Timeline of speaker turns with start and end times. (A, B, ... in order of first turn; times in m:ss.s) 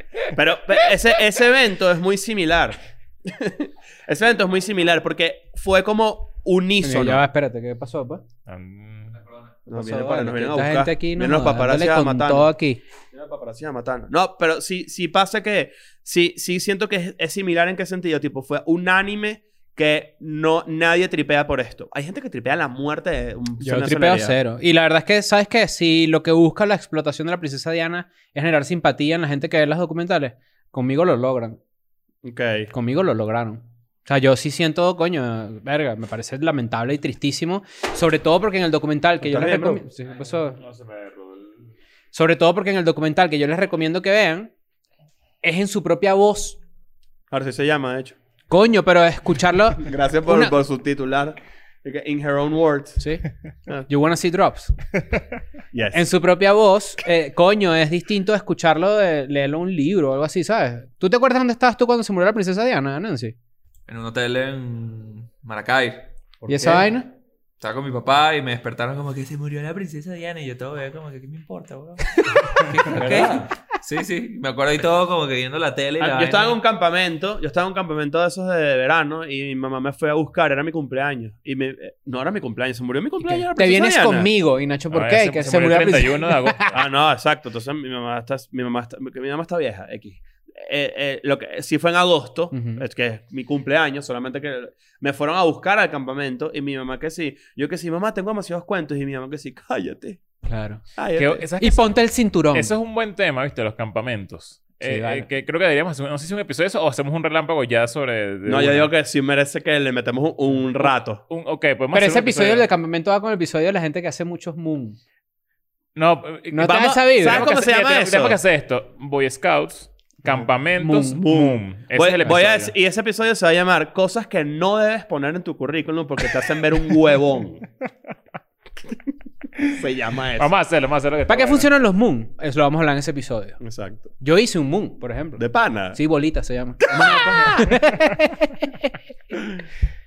0:00.3-0:07.2 A
0:06.8-0:08.2 B
0:08.5-0:09.2 C
0:09.7-0:12.5 A
0:09.7-0:12.8 B
0:13.1-0:24.4 A
0:23.6-0:31.6 B
0:32.2-0:32.7 A
0:32.7-0:40.6 B
0:39.2-0:39.8 A
0:40.6-0:41.7 C
0:42.1-0:44.5 B
0:45.4-0:46.6 B
0:47.3-0:48.2 A
0:48.5-0:50.6 B
0:49.8-0:53.0 A
0:53.0-0:53.2 B
0:53.9-0:54.8 B
0:55.7-0:56.1 A
0:55.9-1:03.4 B
1:03.9-1:06.1 D
1:06.4-1:06.9 A
1:06.5-1:07.1 B
1:07.6-1:16.6 D
1:12.9-1:13.5 A
1:16.0-1:24.3 A
1:23.2-1:26.7 B
1:24.9-1:26.8 C
1:26.7-1:40.2 A
1:32.5-1:32.8 B
1:40.4-1:40.8 B
1:41.0-1:41.4 A
1:41.2-1:41.9 C
1:41.6-1:42.7 B
1:42.5-1:48.9 C
1:44.8-1:45.3 B
1:48.5-1:51.2 A
1:51.3-1:52.7 C
1:51.9-1:55.0 B
1:56.0-2:02.7 C
1:56.5-1:57.4 B
1:56.6-1:58.4 A
2:00.8-2:01.2 B
2:01.2-2:07.7 A
2:09.7-2:10.5 A
2:10.4-2:11.7 C
2:11.3-2:13.6 B
2:13.6-2:14.1 A
2:14.2-2:18.9 B
2:15.4-2:16.0 A
2:17.0-2:17.4 A